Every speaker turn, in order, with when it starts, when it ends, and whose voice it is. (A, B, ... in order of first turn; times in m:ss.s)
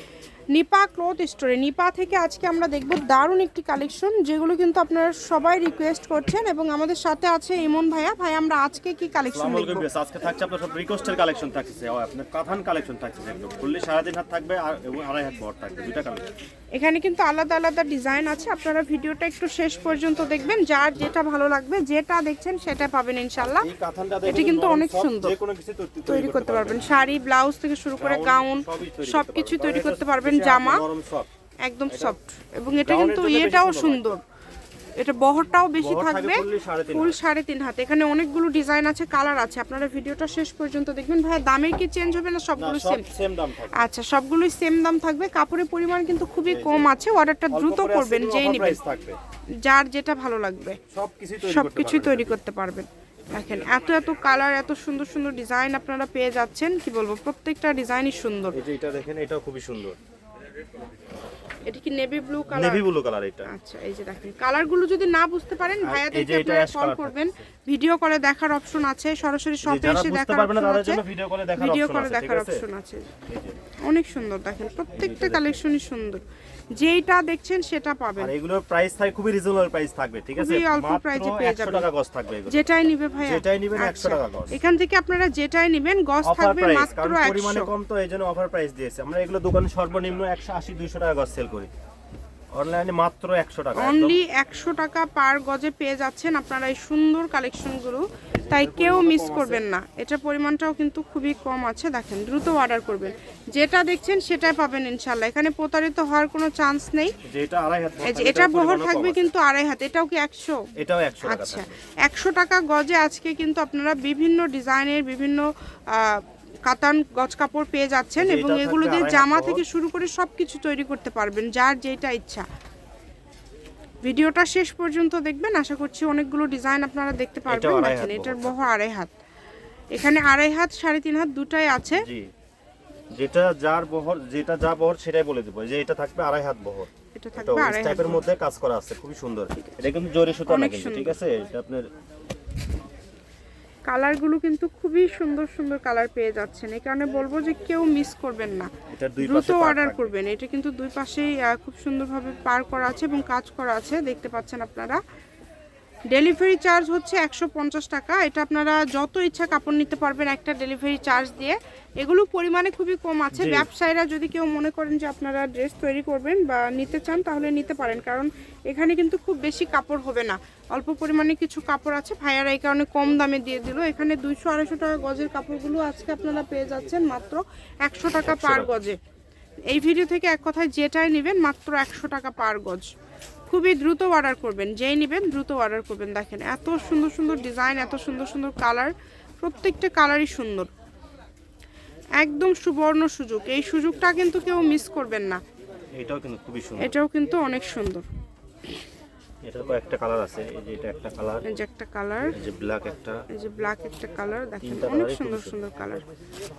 0:00.5-0:09.9 A
0:09.3-0:16.3 B
0:16.7-0:23.7 A
0:23.4-0:26.8 B
0:24.3-0:25.4 A
0:26.1-0:30.8 A
0:28.0-0:31.3 B
0:31.6-0:34.2 A
0:31.9-0:32.2 B
0:32.7-0:34.2 B
0:35.0-0:43.0 A
0:35.8-0:37.2 B
0:42.6-0:43.8 B
0:43.7-0:48.8 A
0:46.5-0:46.9 B
0:47.5-0:49.2 B
0:49.6-0:50.8 A
0:50.9-0:52.4 B
0:51.4-0:58.6 A
0:58.5-1:00.0 B
1:01.7-1:02.9 A
1:02.5-1:03.5 B
1:03.5-1:11.0 A
1:05.8-1:07.2 B
1:09.6-1:12.6 B
1:11.6-1:13.2 A
1:13.3-1:13.6 B
1:13.8-1:18.3 A
1:15.0-1:15.6 B
1:18.2-1:22.6 B
1:20.4-1:21.9 A
1:22.5-1:27.7 A
1:23.2-1:24.6 B
1:26.2-1:31.7 B
1:32.5-1:34.2 B
1:33.8-1:47.2 A
1:38.4-1:39.6 B
1:47.2-1:49.3 B
1:48.0-1:50.7 A
1:50.8-1:51.7 B
1:51.2-2:02.5 A
1:58.2-1:59.6 B
2:04.0-2:09.1 A
2:07.5-2:08.7 B
2:09.9-2:12.1 A
2:12.0-2:12.3 B
2:13.2-2:21.9 B
2:17.2-2:18.2 A
2:19.5-2:19.8 A
2:20.5-2:21.2 A
2:23.9-2:35.0 A
2:28.9-2:30.1 B
2:36.1-2:59.0 A
2:43.3-2:43.7 B
2:58.2-2:58.8 B
2:59.7-3:02.9 A
3:03.5-3:10.7 A
3:12.2-3:15.4 A
3:16.0-3:17.0 B
3:16.8-3:18.1 A
3:19.4-3:21.4 B
3:21.5-3:22.4 A
3:22.4-3:23.2 B
3:23.3-3:26.0 A
3:24.6-3:25.6 B